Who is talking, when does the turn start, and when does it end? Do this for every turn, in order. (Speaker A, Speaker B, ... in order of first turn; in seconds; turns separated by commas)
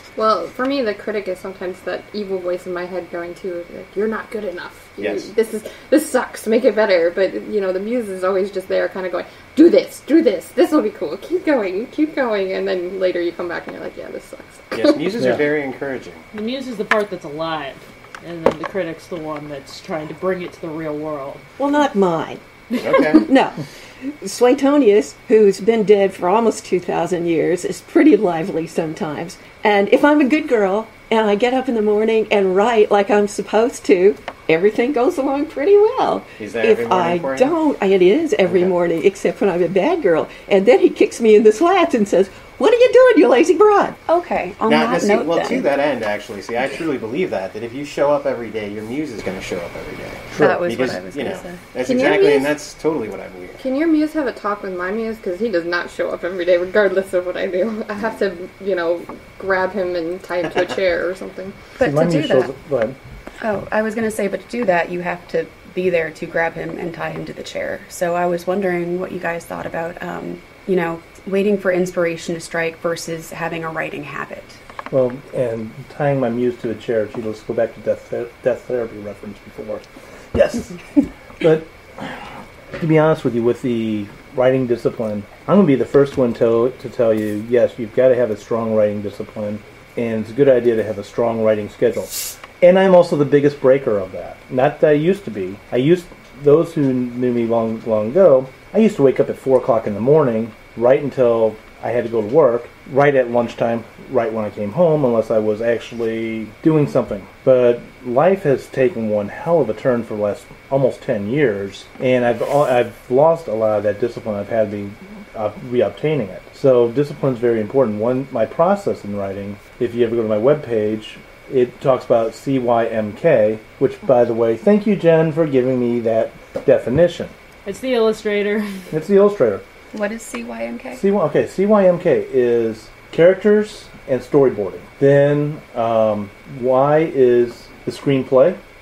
Speaker A: 0.2-15.1, Speaker B: 5.0-5.3, Speaker B: 14.7-16.2, Speaker C: 15.2-15.5, Speaker D: 16.3-21.5, Speaker E: 21.6-22.4, Speaker B: 22.8-23.3, Speaker D: 22.9-23.2, Speaker E: 23.2-44.0, Speaker B: 36.4-37.6, Speaker B: 38.5-38.7, Speaker F: 44.1-45.7, Speaker B: 44.6-53.6, Speaker F: 50.3-51.6, Speaker A: 51.8-52.6, Speaker A: 53.6-61.6, Speaker F: 61.8-62.5, Speaker C: 61.8-63.0, Speaker F: 63.4-74.6, Speaker C: 74.9-80.8, Speaker C: 81.4-127.3, Speaker D: 127.7-128.9, Speaker C: 128.9-129.6, Speaker F: 129.9-131.0, Speaker C: 131.0-138.6